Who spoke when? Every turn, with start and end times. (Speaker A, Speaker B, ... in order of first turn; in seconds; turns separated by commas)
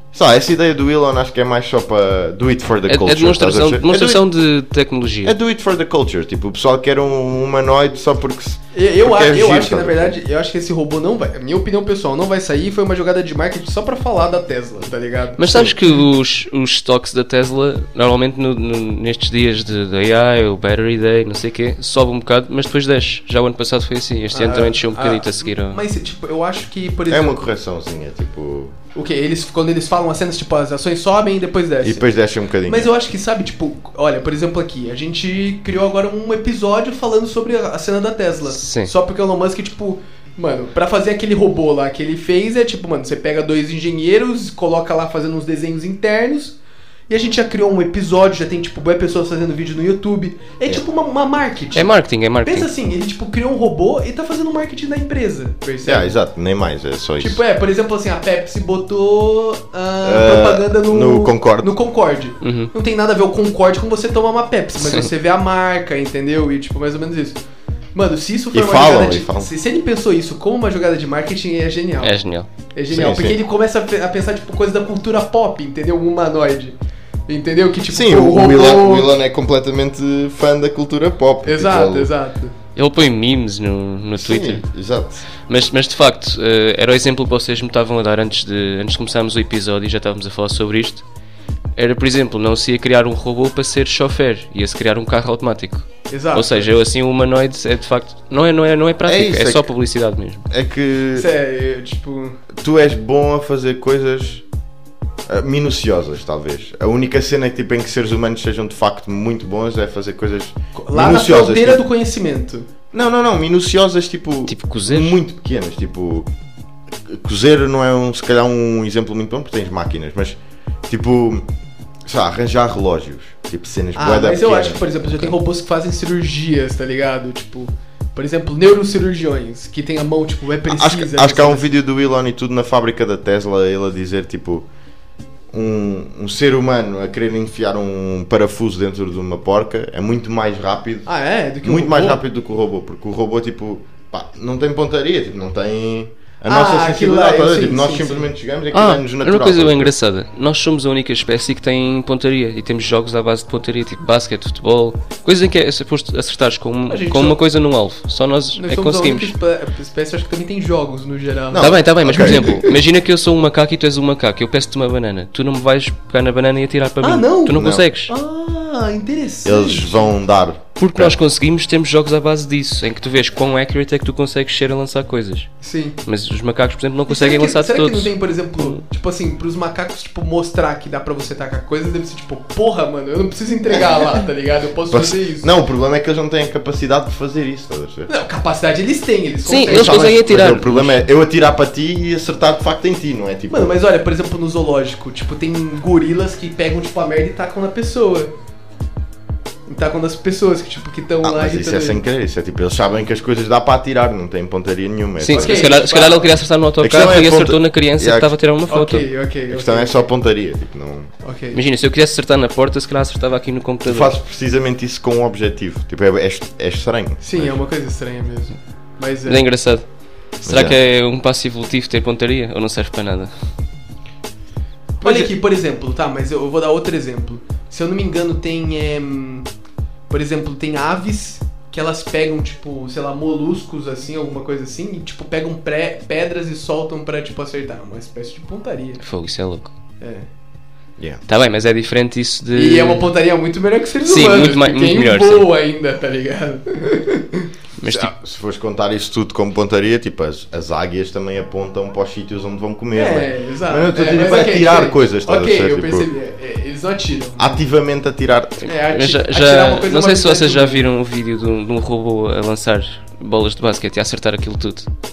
Speaker A: 0.1-4.2, Speaker B: 2.9-5.4, Speaker A: 5.2-10.2, Speaker C: 8.7-15.8, Speaker B: 15.4-25.8, Speaker C: 24.3-27.4, Speaker A: 27.1-28.7, Speaker C: 28.9-32.1, Speaker A: 31.8-32.9, Speaker C: 32.6-46.6, Speaker B: 38.5-38.9, Speaker C: 47.1-51.9, Speaker B: 51.7-52.7, Speaker C: 52.4-56.1, Speaker A: 55.8-57.4, Speaker C: 57.2-67.4, Speaker A: 60.0-61.7, Speaker B: 62.4-62.7, Speaker B: 64.8-65.1, Speaker C: 68.0-72.2, Speaker A: 68.5-69.5, Speaker B: 72.0-72.5, Speaker C: 72.7-76.8, Speaker A: 72.9-73.4, Speaker C: 77.3-79.2, Speaker A: 77.9-82.1, Speaker C: 81.4-82.5, Speaker B: 82.7-84.6, Speaker A: 84.2-85.3, Speaker B: 85.5-91.0, Speaker B: 91.8-100.5, Speaker C: 96.1-96.7, Speaker A: 99.0-99.7, Speaker A: 100.5-101.3, Speaker C: 101.1-102.4, Speaker A: 102.5-104.4, Speaker A: 105.3-111.8, Speaker C: 110.7-112.7, Speaker A: 112.9-116.3, Speaker B: 114.5-115.2, Speaker A: 117.1-121.5, Speaker A: 122.0-125.3, Speaker C: 124.0-131.7, Speaker A: 130.7-134.7, Speaker A: 135.5-141.1, Speaker C: 141.1-142.2, Speaker A: 141.6-149.9, Speaker C: 146.5-148.3, Speaker B: 148.7-159.3, Speaker C: 156.9-157.4, Speaker C: 158.6-162.7, Speaker A: 161.5-162.7, Speaker B: 161.6-168.1, Speaker C: 167.0-170.1, Speaker A: 167.5-167.9, Speaker A: 169.4-171.2, Speaker B: 170.8-175.5, Speaker C: 175.6-176.0, Speaker B: 176.1-178.8, Speaker C: 177.1-185.5, Speaker A: 184.9-188.1, Speaker C: 188.1-190.2, Speaker B: 189.5-191.1, Speaker A: 189.7-193.8, Speaker C: 193.5-198.3, Speaker C: 199.7-202.0, Speaker A: 201.2-205.7, Speaker B: 205.2-209.1, Speaker C: 205.3-206.3, Speaker A: 206.8-208.3, Speaker C: 208.7-210.1, Speaker A: 209.5-211.1, Speaker C: 211.2-211.6, Speaker B: 211.5-214.1, Speaker A: 213.8-217.6, Speaker C: 217.2-219.4, Speaker B: 219.3-219.9, Speaker B: 220.4-223.3, Speaker A: 220.4-220.8, Speaker C: 225.0-229.5, Speaker C: 230.1-239.0, Speaker B: 239.0-239.7, Speaker C: 240.0-240.3, Speaker B: 241.3-243.1, Speaker C: 242.6-247.5, Speaker B: 244.0-245.5, Speaker B: 247.8-248.1, Speaker A: 247.9-256.1, Speaker C: 252.9-257.6, Speaker A: 257.4-258.7, Speaker C: 258.6-260.9, Speaker B: 258.8-264.9